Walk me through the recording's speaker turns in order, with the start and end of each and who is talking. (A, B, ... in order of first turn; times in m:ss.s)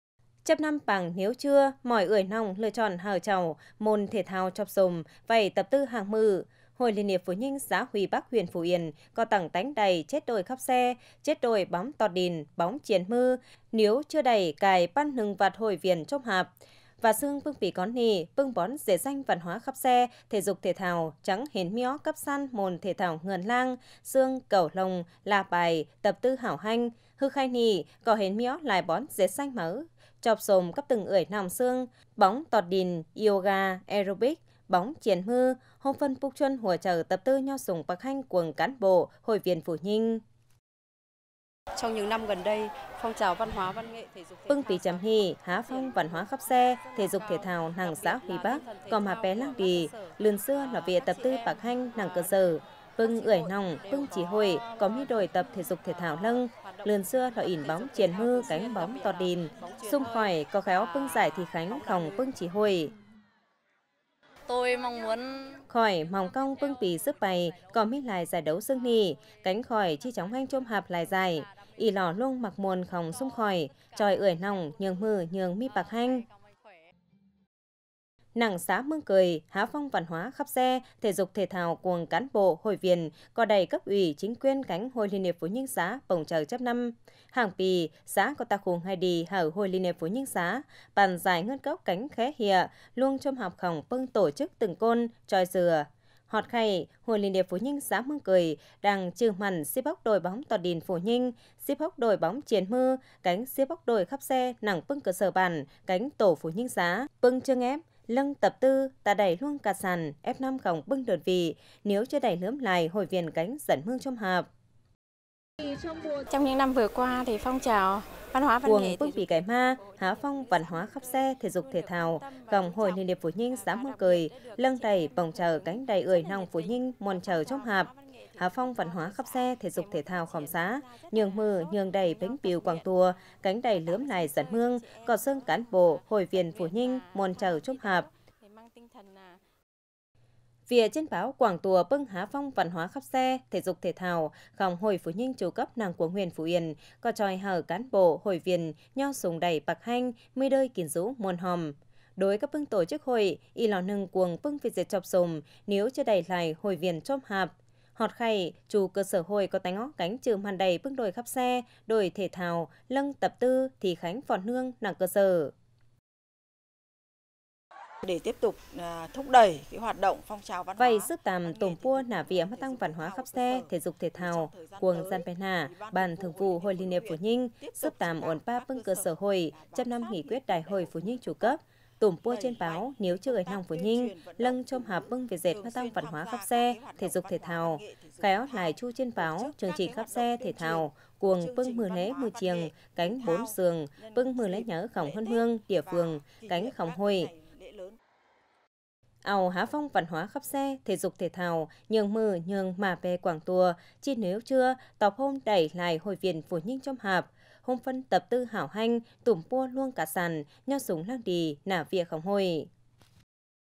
0:00.4-0:40.2 A
0:41.7-0:52.4 B
0:44.5-1:02.9 A
0:53.0-1:02.2 B
0:59.5-1:00.1 C
1:01.7-1:02.0 C
1:04.5-1:05.6 B
1:05.7-1:16.2 A
1:06.2-1:07.8 B
1:10.0-1:11.9 B
1:13.0-1:15.0 B
1:15.6-1:16.3 B
1:18.3-1:54.5 A
1:56.1-2:19.4 B
1:58.6-2:18.1 A
2:20.7-2:45.5 A
2:48.0-3:01.5 C
2:50.8-3:17.3 A
3:02.3-3:18.0 C
3:19.2-3:32.7 A